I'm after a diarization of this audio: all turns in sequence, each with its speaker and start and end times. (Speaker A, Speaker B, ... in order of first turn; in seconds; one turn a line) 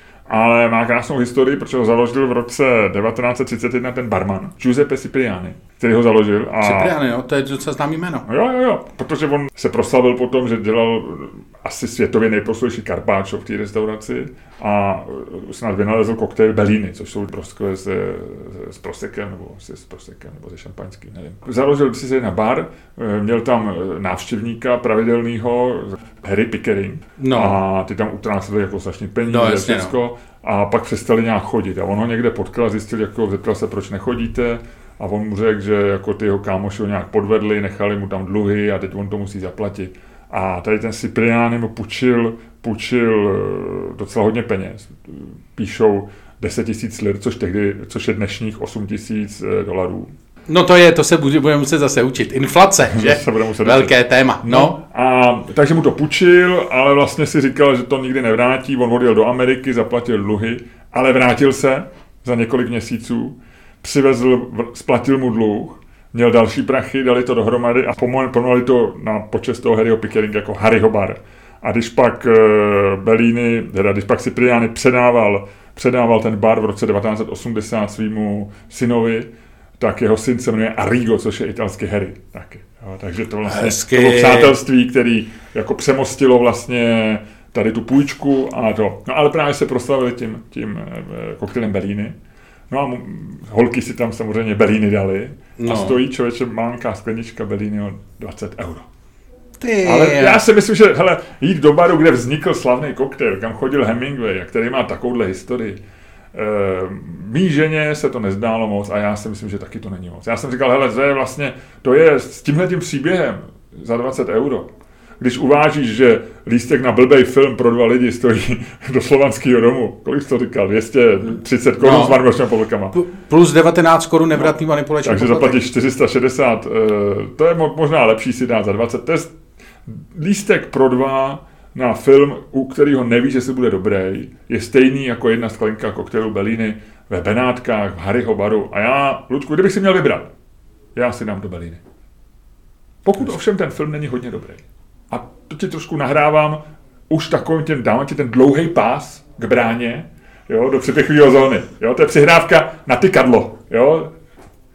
Speaker A: 0.3-6.9
Speaker B: 6.6-8.2
Speaker A: 8.2-50.1
Speaker B: 27.2-27.6
Speaker B: 29.3-29.9
Speaker B: 50.5-54.8
Speaker A: 52.9-92.1
Speaker B: 83.5-84.5
Speaker A: 92.7-98.9
Speaker B: 95.6-96.0
Speaker B: 99.6-100.4
Speaker A: 99.8-105.8
Speaker A: 106.3-122.9
Speaker B: 121.8-122.2
Speaker B: 122.9-125.7
Speaker A: 125.0-140.3
Speaker A: 140.9-141.8
Speaker A: 143.0-154.1